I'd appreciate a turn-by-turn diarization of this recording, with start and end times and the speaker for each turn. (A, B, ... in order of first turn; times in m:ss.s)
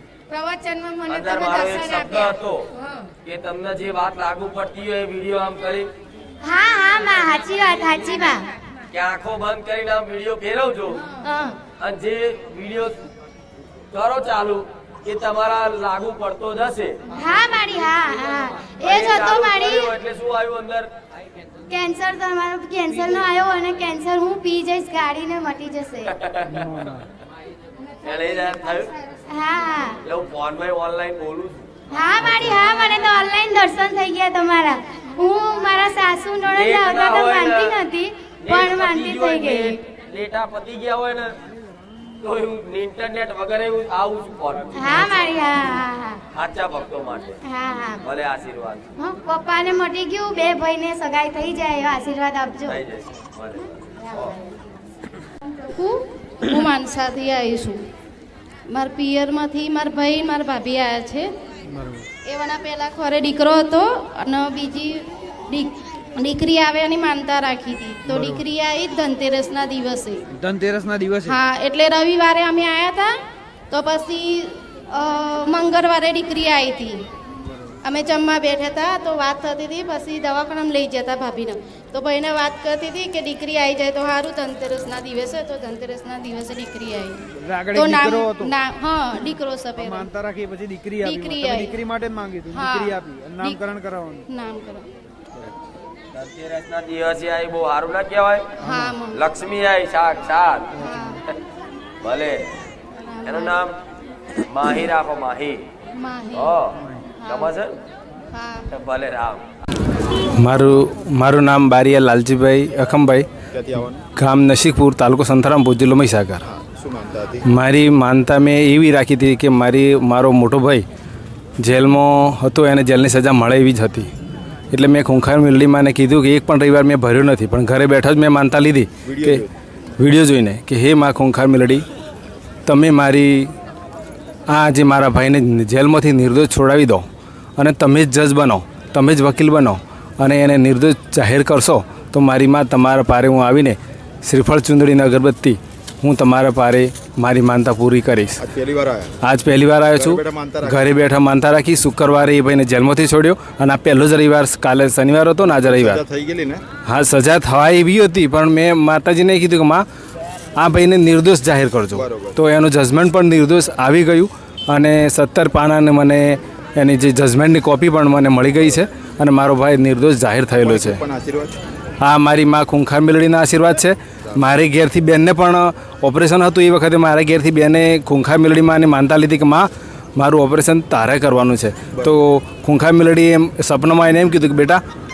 0:00.3-0:02.2 A
0:01.1-0:02.7 B
0:03.2-0:05.9 B
0:06.4-0:08.4 A
0:08.9-0:11.1 B
0:11.2-0:11.6 A
0:11.8-0:13.0 B
0:13.9-0:16.9 B
0:17.2-0:19.9 A
0:18.8-0:20.9 B
0:21.7-0:26.1 A
0:26.2-0:26.9 B
0:26.5-0:27.0 C
0:28.0-0:28.9 B
0:29.3-0:30.0 A
0:30.0-0:31.7 B
0:31.9-0:39.8 A
0:32.3-0:32.6 B
0:36.5-0:37.7 B
0:38.4-0:41.3 B
0:42.2-0:45.2 B
0:44.7-0:46.2 A
0:46.3-0:47.4 B
0:47.4-0:48.0 A
0:48.0-0:48.8 B
0:49.0-0:52.8 A
0:52.7-0:54.3 B
0:54.0-0:54.6 A
0:55.7-0:57.8 D
0:58.7-1:01.2 D
1:01.8-1:02.0 C
1:02.3-1:10.2 D
1:08.1-1:08.4 C
1:10.4-1:11.4 C
1:11.2-1:13.1 D
1:13.7-1:17.0 D
1:17.8-1:30.1 D
1:27.4-1:28.5 C
1:29.8-1:34.2 C
1:31.0-1:31.8 D
1:32.5-1:33.6 D
1:34.3-1:34.8 D
1:36.1-1:38.5 B
1:38.6-1:39.2 D
1:38.6-1:38.9 C
1:39.1-1:40.8 B
1:40.8-1:41.2 D
1:42.0-1:42.4 B
1:43.0-1:43.6 D
1:43.2-1:43.7 B
1:44.5-1:45.6 B
1:46.0-1:46.6 D
1:46.3-1:46.8 B
1:47.2-1:47.5 D
1:47.3-1:47.7 B
1:48.3-1:48.7 D
1:48.7-1:49.4 B
1:50.4-1:53.2 E
1:53.5-1:54.0 F
1:54.2-1:56.4 E
1:56.4-1:57.4 F
1:57.4-2:00.8 E
2:01.6-2:04.1 E
2:04.7-2:09.4 E
2:09.2-2:09.4 F
2:10.0-2:11.8 E
2:12.7-2:13.5 E
2:14.5-2:17.0 E
2:17.6-2:28.4 E
2:28.4-2:29.1 F
2:29.2-2:36.0 E
2:29.9-2:30.8 F
2:35.6-2:36.6 F
2:36.9-2:39.8 E
2:40.6-2:51.0 E
2:42.0-2:42.4 F
2:50.6-2:51.5 F
2:52.0-3:04.8 E